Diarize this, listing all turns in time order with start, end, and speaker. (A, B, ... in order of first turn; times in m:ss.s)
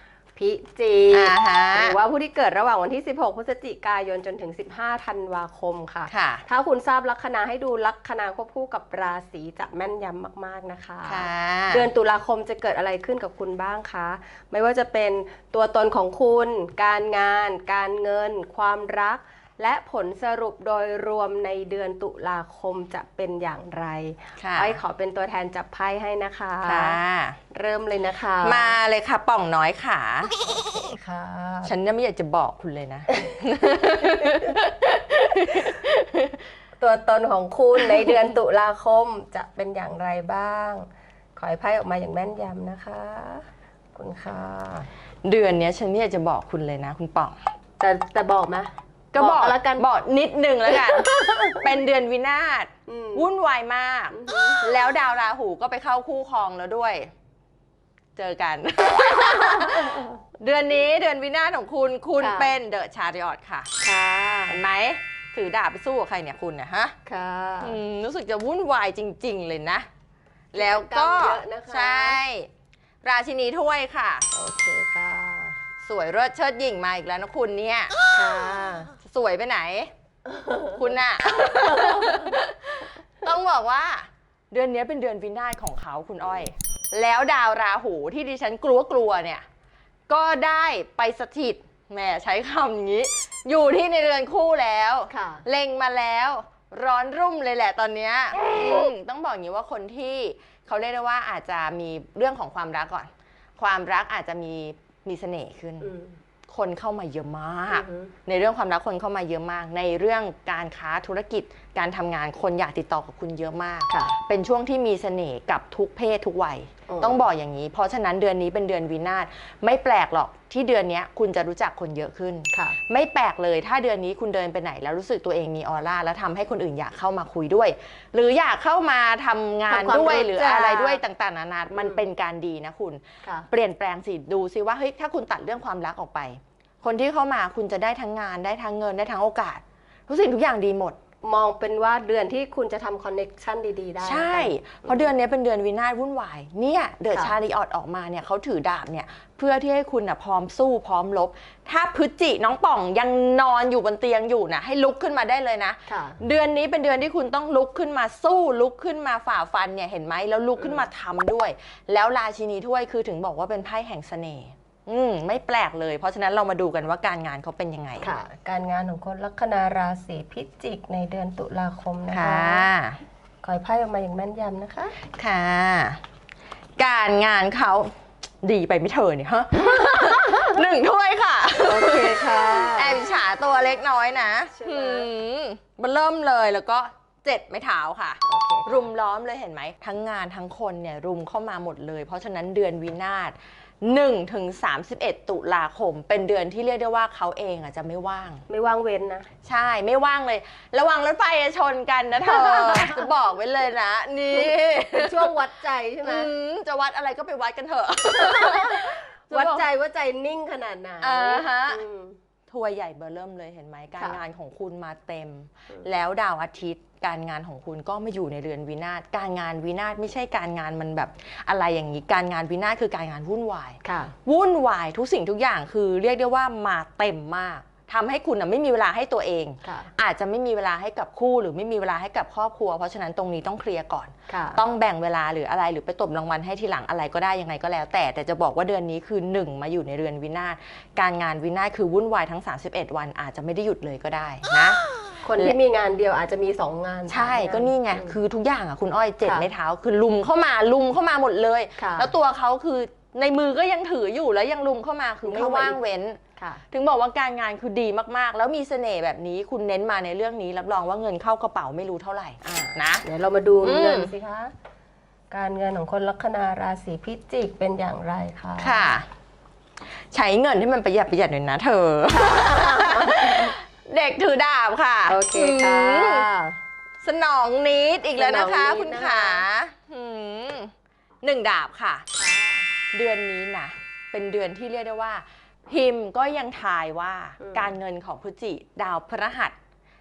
0:00.3-0:27.0 A
0:01.1-0:02.0 B
0:06.1-0:06.4 B
0:11.1-0:11.9 B
0:24.4-0:24.8 B
0:26.6-0:27.4 B
0:27.5-0:28.8 A
0:28.4-0:30.3 B
0:30.8-0:31.7 A
0:31.6-0:36.4 B
0:33.1-0:34.6 A
0:35.4-0:35.7 A
0:36.8-0:44.9 A
0:45.2-0:47.4 B
0:47.8-0:49.9 A
0:49.1-0:57.1 B
0:50.7-0:51.6 A
0:52.9-0:53.3 A
0:54.1-0:54.7 A
0:58.2-1:03.7 B
0:59.4-1:00.1 A
1:02.2-1:02.5 A
1:03.8-1:04.6 A
1:04.5-1:06.9 B
1:07.0-1:07.8 A
1:07.6-1:09.9 B
1:10.5-1:12.5 B
1:10.5-1:12.2 A
1:13.0-1:14.3 B
1:14.3-1:15.6 A
1:15.8-1:17.9 B
1:18.1-1:18.9 A
1:19.0-1:19.9 B
1:20.2-1:22.4 A
1:20.8-1:29.4 B
1:30.1-1:45.9 B
1:35.1-1:35.4 A
1:45.8-1:46.2 A
1:46.5-2:21.0 B
1:47.7-1:48.1 A
1:53.9-1:54.2 A
1:56.9-1:57.2 A
2:02.5-2:02.8 A
2:09.7-2:11.0 A
2:11.7-2:12.0 A
2:21.2-2:25.1 A
2:24.0-2:48.1 B
2:35.9-2:36.2 A
2:40.6-2:40.8 A
2:48.0-2:52.7 A
2:52.1-2:53.0 B
2:53.4-2:55.0 A
2:55.2-2:56.0 B
2:56.8-3:18.4 B
3:01.6-3:03.0 A
3:04.5-3:05.1 A
3:08.2-3:08.9 A
3:18.5-3:19.3 A
3:19.4-3:25.3 B
3:22.2-3:23.1 A
3:24.3-3:26.3 A
3:26.0-3:29.6 B
3:28.0-3:32.2 A
3:31.0-3:31.8 B
3:32.5-4:04.8 B
3:43.8-3:44.1 A
3:49.6-3:49.9 A
3:54.3-3:54.6 A
4:05.2-4:08.2 A
4:07.1-4:16.2 B
4:09.2-4:09.5 A
4:11.8-4:12.1 A
4:15.2-4:15.8 A
4:16.4-4:16.6 A
4:16.7-4:23.0 B
4:22.4-4:24.5 A
4:23.6-4:24.1 B
4:25.3-4:28.9 A
4:28.6-4:29.0 B
4:30.1-4:36.2 B
4:32.1-4:33.5 A
4:35.1-4:36.6 A
4:37.0-4:42.0 B
4:38.2-4:39.4 A
4:42.1-4:42.7 A
4:42.9-4:49.6 B
4:47.4-4:47.7 A